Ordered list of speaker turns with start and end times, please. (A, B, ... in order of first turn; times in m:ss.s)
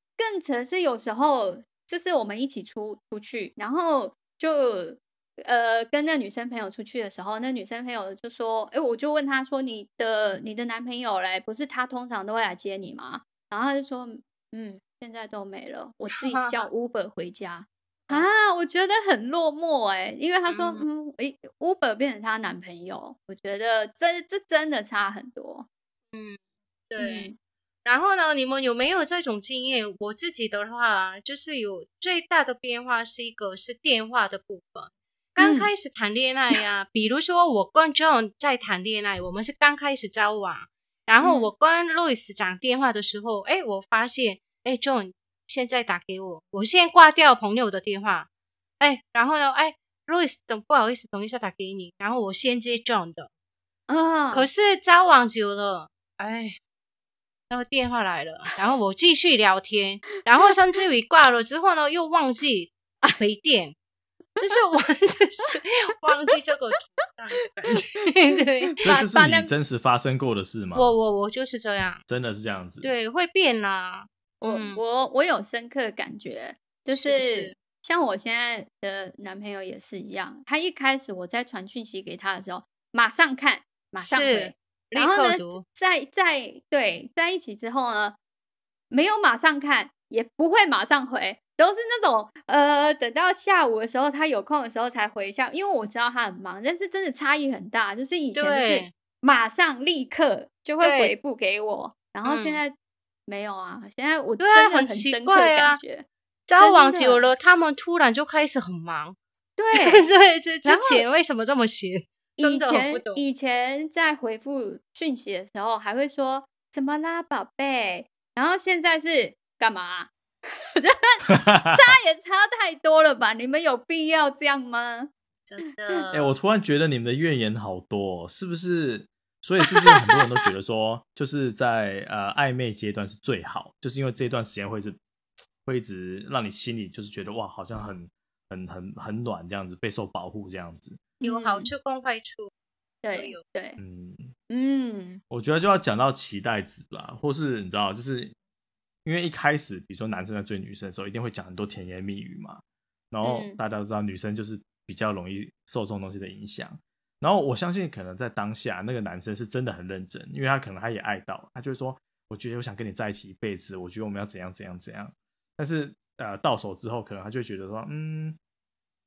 0:00.2-0:25.7 A
0:16.1-0:16.7 B
0:20.5-0:20.8 B
0:26.1-0:26.4 B
0:26.9-0:27.3 B
0:27.0-0:27.4 A
0:27.8-0:48.3 B
0:35.4-0:35.7 A
0:41.2-0:41.5 A
0:48.8-0:53.3 B
0:53.9-0:54.5 A
0:54.3-0:56.6 B
0:57.5-1:03.8 B
1:04.4-1:08.8 B
1:08.8-1:09.5 A
1:08.8-1:11.0 C
1:10.8-1:12.0 B
1:12.1-1:12.9 C
1:12.8-1:14.8 B
1:14.4-1:28.2 A
1:16.9-1:17.6 B
1:24.0-1:25.6 B
1:28.9-1:42.8 A
1:38.3-1:38.9 B
1:40.8-1:41.2 B
1:42.2-1:42.6 B
1:43.3-1:46.1 A
1:44.4-1:45.8 B
1:46.5-1:49.2 B
1:46.6-1:47.3 A
1:49.6-1:50.1 A
1:49.7-1:53.2 B
1:50.6-1:51.0 A
1:52.4-2:00.1 A
2:00.8-2:05.1 A
2:01.3-2:01.8 C
2:05.5-2:06.4 B
2:06.1-2:15.0 C
2:15.6-2:21.0 C
2:21.2-2:22.5 B
2:21.2-2:21.7 A
2:23.0-2:23.8 A
2:23.1-2:23.4 B
2:23.8-2:24.3 C
2:24.5-2:25.2 A
2:25.3-2:28.4 C
2:29.0-2:48.4 C
2:33.2-2:33.6 A